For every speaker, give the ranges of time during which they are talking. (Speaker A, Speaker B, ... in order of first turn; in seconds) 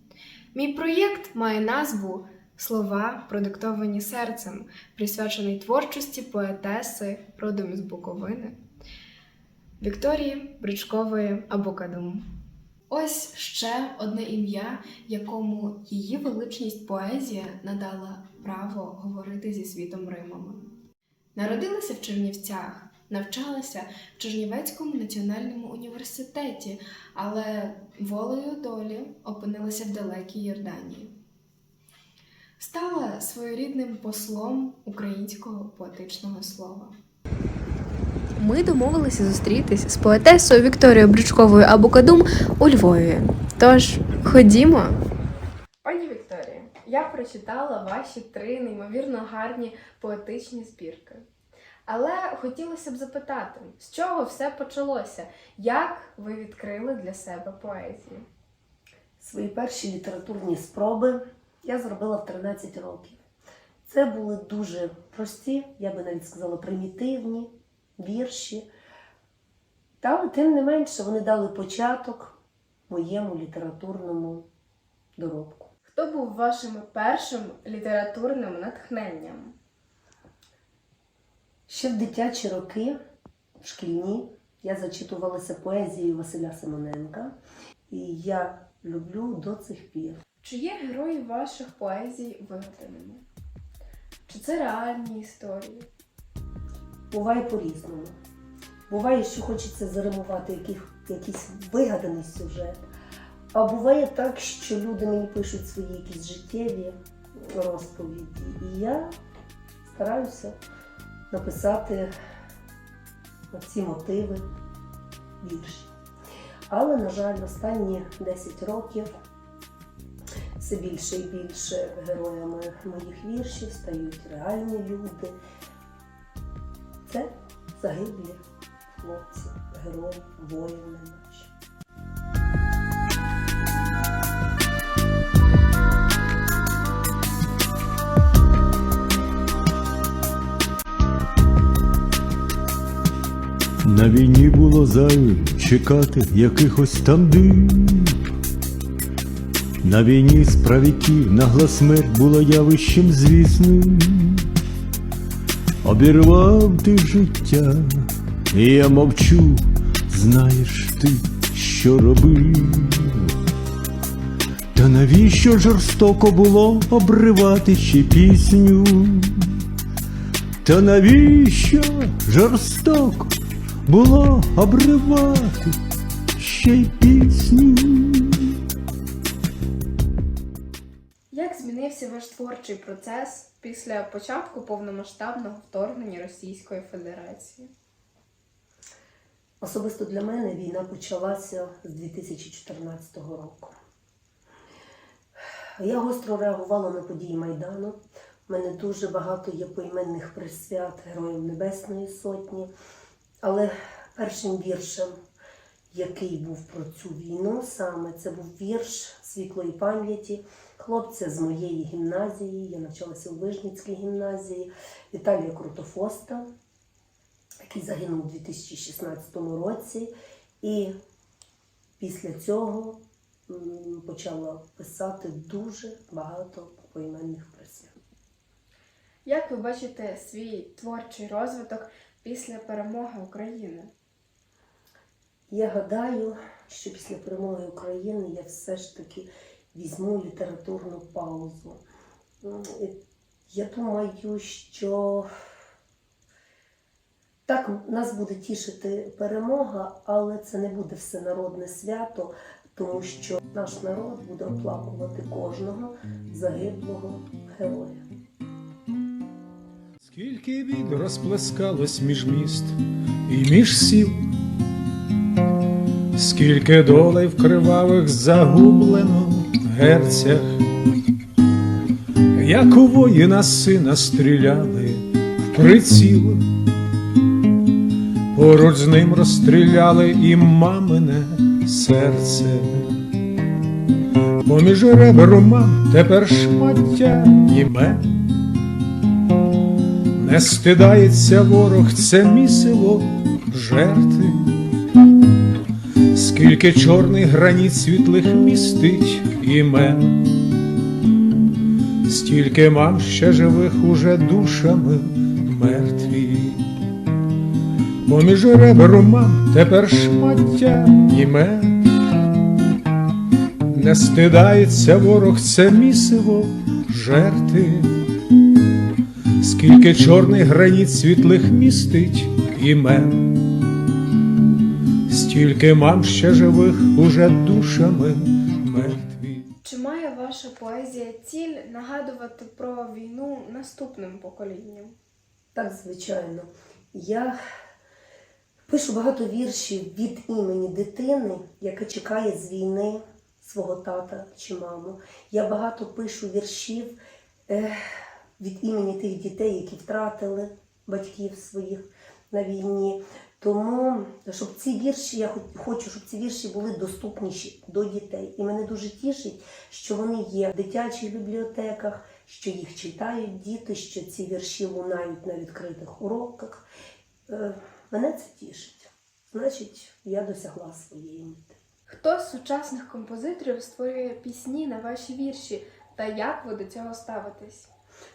Speaker A: 0.5-8.6, 9.8-12.2, 12.9-20.6, 21.4-31.1, 32.6-36.9, 38.4-45.0, 45.8-51.3, 51.9-58.3, 75.9-79.6, 90.4-93.2, 94.3-95.9, 181.3-187.7, 229.2-233.9, 329.6-335.0, 371.9-377.7
Speaker B: 59.2-63.2, 63.9-68.7, 70.0-72.4, 72.9-74.5, 75.2-75.7, 81.7-83.0, 83.6-87.3, 87.9-90.2, 97.1-98.2, 98.9-102.8, 103.5-109.1, 109.8-110.6, 111.3-112.1, 113.5-114.5, 115.4-115.9, 116.7-119.2, 120.6-125.4, 127.0-128.4, 129.0-131.5, 189.6-193.7, 195.8-202.7, 203.4-205.2, 205.9-216.5, 217.6-220.9, 222.0-227.9, 235.5-241.8, 242.4-243.0, 243.5-245.3, 247.5-258.1, 335.6-337.4, 338.7-366.7, 367.3-371.6
Speaker C: 143.8-148.2, 149.8-154.5, 155.8-163.3, 164.8-169.6, 170.6-173.3, 173.9-175.8, 176.4-178.6
Speaker D: 260.0-262.8, 263.3-264.2, 266.2-270.6, 272.4-276.4, 278.4-282.7, 284.4-288.0, 290.2-294.5, 296.1-300.2, 302.1-306.6, 308.1-311.7, 313.7-317.9, 319.4-323.2, 325.1-329.5